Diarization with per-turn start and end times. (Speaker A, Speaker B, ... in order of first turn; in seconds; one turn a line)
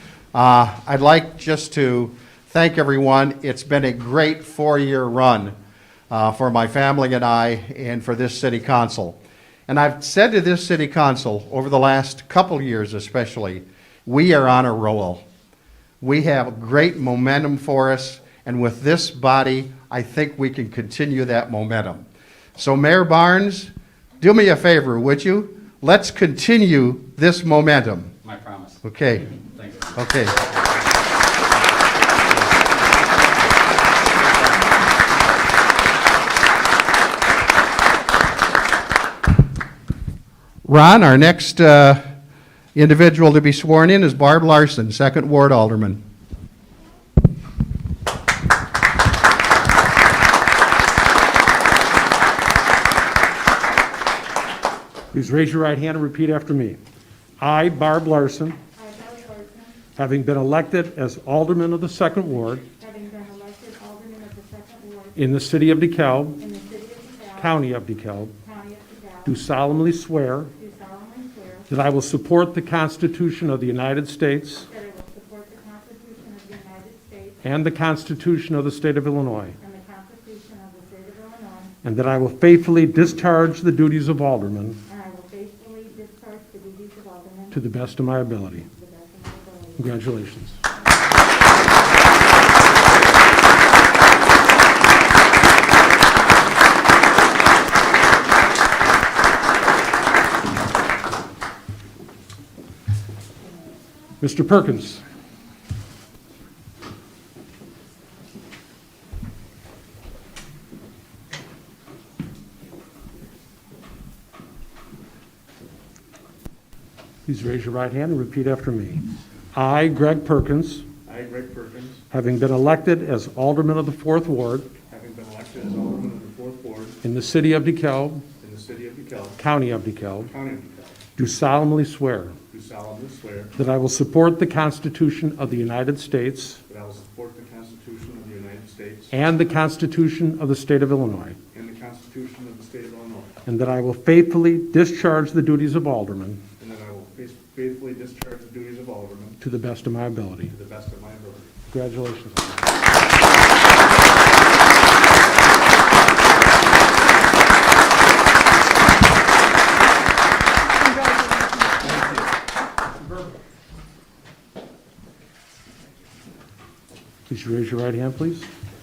Speaker A: 0.3-5.5
Speaker A: 6.1-15.2
Speaker A: 16.0-28.1
Speaker B: 28.2-31.0
Speaker A: 28.8-29.3
Speaker A: 30.0-30.4
Speaker B: 31.9-32.6
Speaker A: 40.6-42.0
Speaker A: 42.8-46.0
Speaker C: 55.1-56.8
Speaker C: 57.4-58.6
Speaker D: 58.8-59.8
Speaker C: 60.0-62.6
Speaker D: 62.8-65.2
Speaker C: 65.2-66.4
Speaker D: 66.4-67.6
Speaker C: 67.4-68.3
Speaker D: 68.4-69.3
Speaker C: 69.2-70.5
Speaker D: 70.6-71.7
Speaker C: 71.7-74.7
Speaker D: 74.7-77.4
Speaker C: 77.4-79.6
Speaker D: 79.6-81.8
Speaker C: 81.8-84.8
Speaker D: 84.9-87.6
Speaker C: 87.5-88.7
Speaker D: 88.7-89.9
Speaker C: 89.8-90.6
Speaker C: 104.2-105.0
Speaker C: 117.3-120.9
Speaker E: 121.1-122.0
Speaker C: 122.1-124.7
Speaker E: 124.9-127.0
Speaker C: 127.0-128.2
Speaker E: 128.4-129.4
Speaker C: 129.4-130.3
Speaker E: 130.3-131.0
Speaker C: 131.2-132.4
Speaker E: 132.5-133.5
Speaker C: 133.6-136.6
Speaker E: 136.7-139.1
Speaker C: 139.1-141.4
Speaker E: 141.5-143.3
Speaker C: 143.5-146.4
Speaker E: 146.6-149.4
Speaker C: 149.4-150.5
Speaker E: 150.5-151.5
Speaker C: 151.7-152.7
Speaker D: 160.9-162.3
Speaker C: 167.3-168.5